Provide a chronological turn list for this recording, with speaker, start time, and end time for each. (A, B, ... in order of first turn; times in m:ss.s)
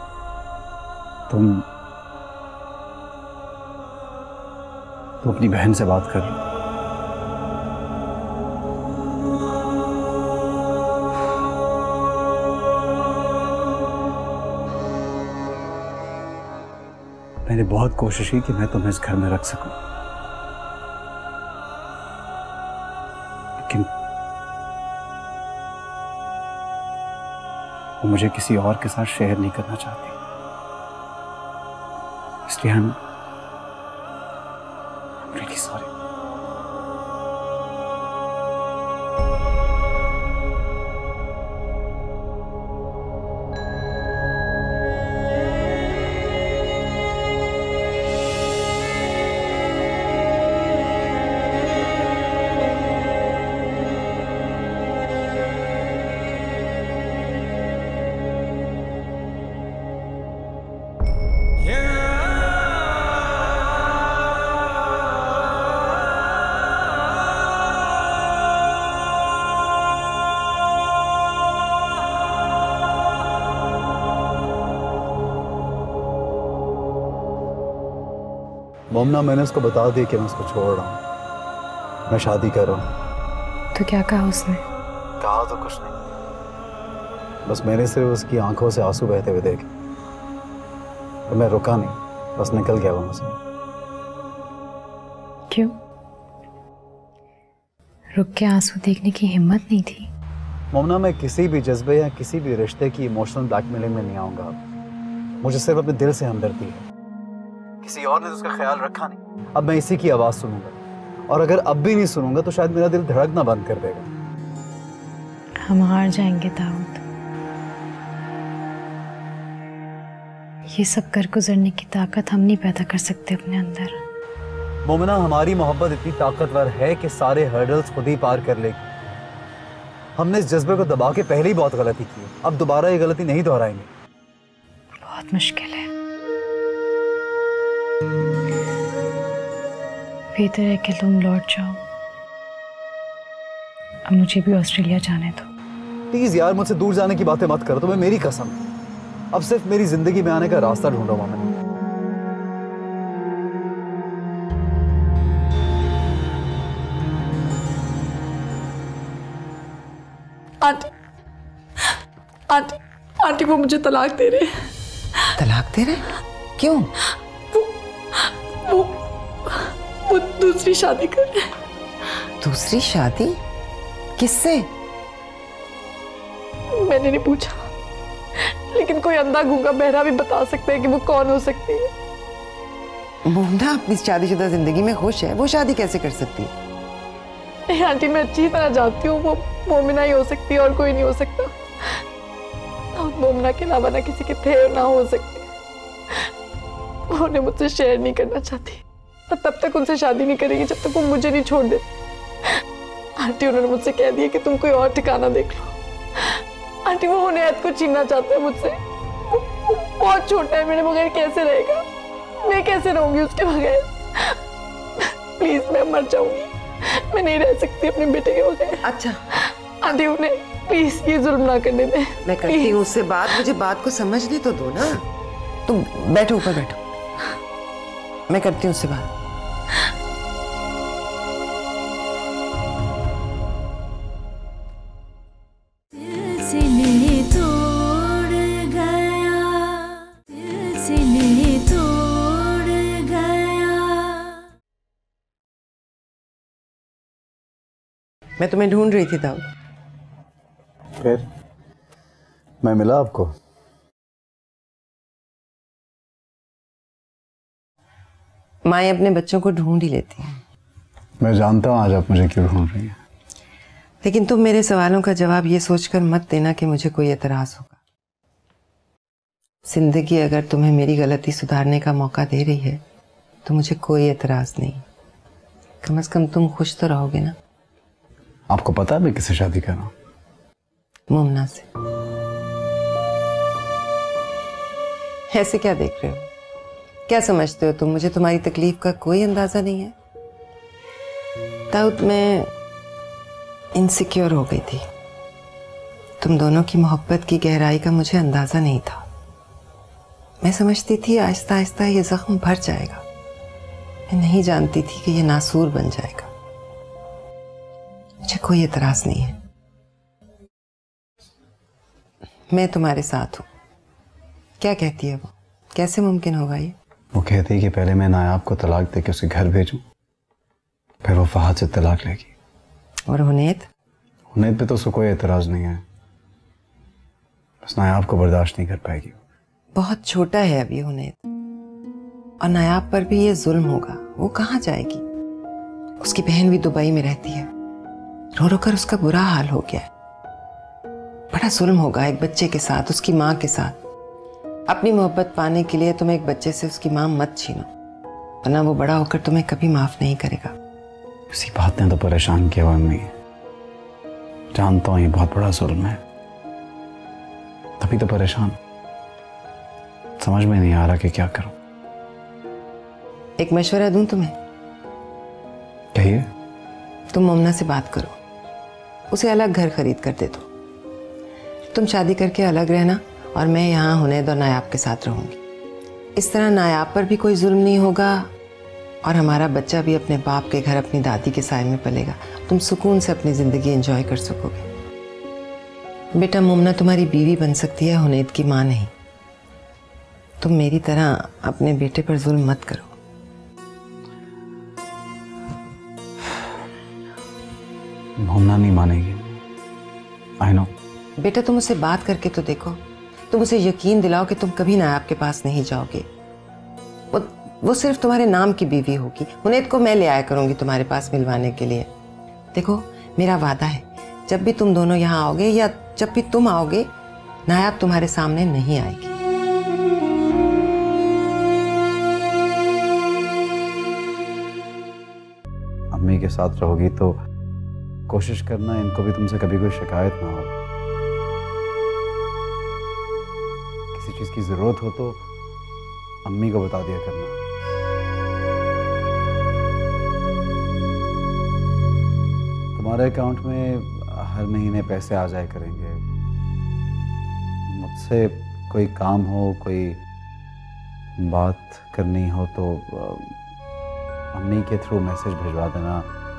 0:01.3-0:01.6 A
0:05.2-0:06.4 A
0:17.4-0:19.8 A
0:28.0-0:30.1 A
0:32.5-0:33.0 A
0:35.2-0:35.9 A
1:18.9-1:21.0 A
1:22.1-1:22.9 A
1:23.7-1:24.6 B
1:25.2-1:26.0 A
1:27.4-1:29.7 A
1:31.3-1:33.4 A
1:35.5-1:35.8 B
1:38.1-1:40.1 B
1:40.7-1:44.6 A
1:45.4-1:46.8 A
1:47.8-1:50.7 A
1:51.3-1:54.1 A
1:55.6-1:57.0 B
2:00.7-2:04.0 B
2:04.8-2:08.9 A
2:10.2-2:13.9 A
2:15.0-2:15.9 B
2:20.4-2:21.8 B
2:24.1-2:25.5 B
2:26.1-2:28.6 A
2:29.3-2:31.5 A
2:40.6-2:40.9 C
2:42.5-2:44.5 C
2:45.4-2:46.9 D
2:47.5-2:51.5 C
2:52.4-2:53.4 D
2:54.2-2:54.7 D
2:56.8-2:57.7 C
2:58.7-3:01.9 C
3:03.2-3:06.5 D
3:07.7-3:12.0 C
3:13.0-3:15.4 C
3:17.1-3:21.8 C
3:23.2-3:28.8 C
3:29.3-3:31.8 C
3:32.4-3:34.4 C
3:35.0-3:36.5 C
3:37.1-3:38.8 C
3:38.8-3:39.2 D
3:39.4-3:42.8 C
3:42.2-3:45.0 D
3:45.6-3:46.8 D
3:48.3-3:49.1 D
3:55.9-4:04.4 E
4:08.4-4:09.4 D
4:11.0-4:11.2 A
4:12.6-4:13.3 A
4:18.6-4:20.4 D
4:21.2-4:23.0 A
4:24.0-4:27.8 D
4:29.6-4:32.8 D
4:33.4-4:34.8 D
4:35.8-4:37.4 D
4:38.5-4:39.9 A
4:41.1-4:41.7 D
4:45.3-4:46.3 D
4:47.1-4:49.9 D
4:51.7-4:52.5 D
4:53.7-4:54.8 D
4:56.2-4:59.1 D
5:00.4-5:03.0 D
5:04.1-5:06.3 D
5:08.2-5:09.4 D
5:12.5-5:13.4 D
5:14.6-5:16.8 D
5:17.1-5:19.8 A
5:21.0-5:22.3 A
5:23.1-5:23.7 D
5:24.3-5:25.8 A
5:27.6-5:29.1 A
5:29.8-5:31.2 D
5:32.4-5:35.0 D
5:36.0-5:37.5 D
5:38.4-5:39.9 D
5:41.3-5:43.8 D
5:44.7-5:47.7 D
5:48.4-5:50.5 D
5:51.3-5:53.1 A
5:54.5-5:56.0 A
5:57.8-5:58.6 A
6:00.2-6:01.5 A
6:03.4-6:04.4 D
6:05.9-6:06.2 A
6:07.1-6:08.2 D
6:09.1-6:10.5 D
6:11.7-6:15.4 D
6:16.2-6:18.3 D
6:19.0-6:24.7 D
6:26.1-6:28.9 D
6:30.4-6:32.9 D
6:38.2-6:39.4 A
6:40.4-6:40.7 A
6:41.2-6:46.1 D
6:47.1-6:51.9 D
6:52.5-6:56.9 D
6:57.4-6:59.2 D
7:05.9-7:07.2 A
7:08.1-7:10.6 A
7:13.9-7:15.2 A
7:16.2-7:17.4 A
7:22.8-7:26.0 A
7:27.7-7:30.0 A
7:31.2-7:33.3 A
7:34.3-7:36.1 A